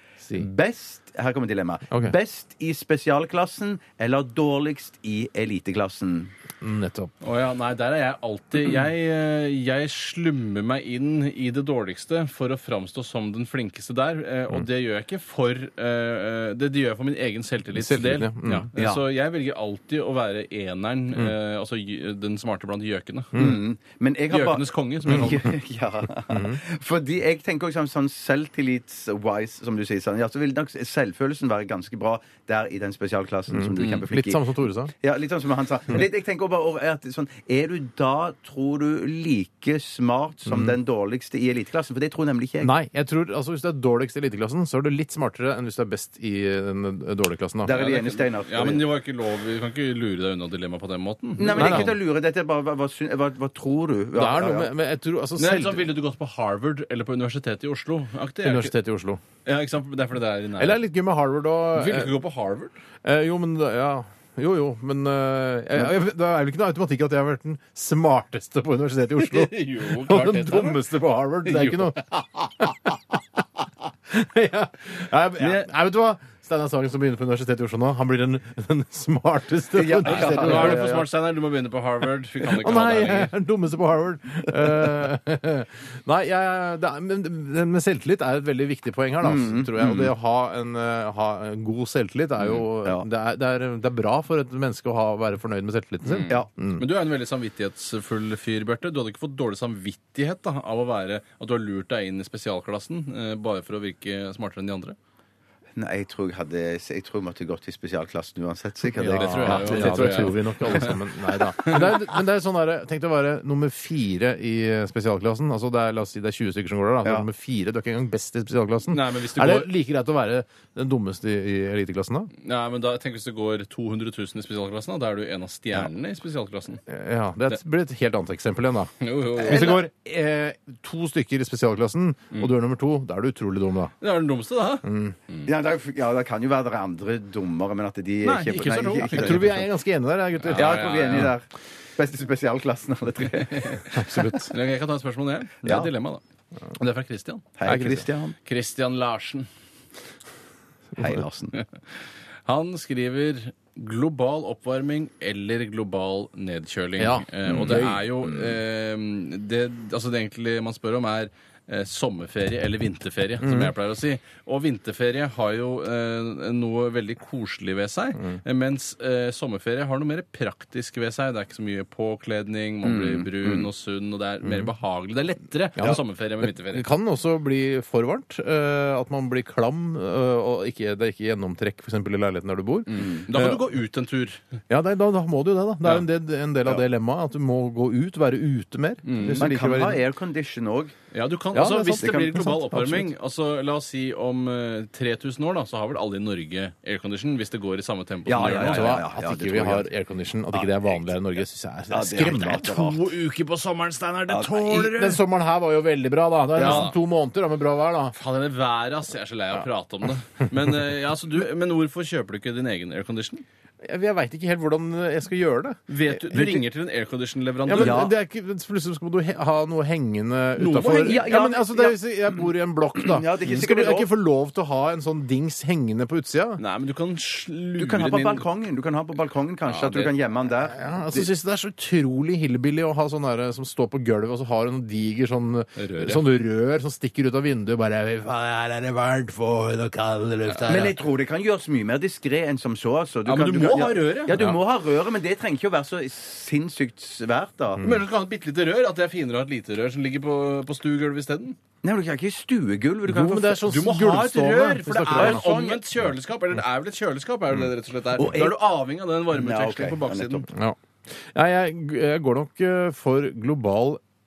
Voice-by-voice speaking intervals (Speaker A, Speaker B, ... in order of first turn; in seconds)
Speaker A: 0.2-0.5, 6.6-7.1, 17.7-18.7, 23.3-23.6, 25.1-25.5, 26.3-26.6, 33.5-34.9, 40.5-40.8, 42.6-47.8, 51.5-51.9, 54.1-55.9, 58.4-59.2, 60.6-62.1, 63.0-72.0, 72.6-73.4, 74.1-80.9, 82.4-96.9, 109.0-122.3, 126.8-133.9, 134.8-135.2, 138.8-141.3, 143.9-144.5, 147.6-148.1, 157.0-158.0, 163.4-163.7, 174.4-174.7, 175.8-183.7, 184.7-190.0, 191.5-193.1, 198.5-202.8, 204.8-208.1, 213.8-216.6, 217.7-226.6, 230.6-240.9, 247.8-248.0, 253.1-255.4, 260.5-264.0
Speaker B: 0.3-6.3, 18.7-19.0, 23.3-42.7, 47.6-48.8, 51.4-54.7, 79.7-81.0, 89.2-90.1, 96.2-96.5, 105.8-110.3, 129.4-129.9, 135.4-139.6, 140.5-141.4, 142.0-144.3, 145.6-145.9, 147.6-148.3, 151.0-151.6, 172.8-173.7, 189.3-190.9, 198.2-199.9, 201.9-203.1, 204.3-204.9, 206.6-206.8, 217.7-218.1, 221.0-222.0, 223.0-224.1, 227.8-231.3, 240.7-247.8, 251.8-253.7, 255.1-255.8, 258.2-258.6, 259.3-260.5
Speaker C: 7.2-23.4, 24.3-25.5, 47.7-51.9, 55.4-58.7, 59.4-60.8, 61.7-62.7, 69.2-70.8, 71.5-72.5, 75.4-75.7, 80.0-83.3, 96.1-105.0, 109.0-111.0, 111.6-111.9, 118.9-119.7, 122.4-126.8, 129.0-129.8, 134.0-135.5, 138.2-139.6, 140.4-141.3, 143.3-146.2, 146.8-147.5, 148.4-149.5, 152.4-176.8, 182.9-184.4, 189.0-189.5, 191.1-199.0, 202.2-205.2, 206.6-206.9, 208.1-213.4, 215.9-218.1, 220.6-221.2, 226.6-228.4, 229.7-230.1, 235.8-236.2, 240.5-240.9, 243.2-244.3, 247.8-251.6, 253.7-260.5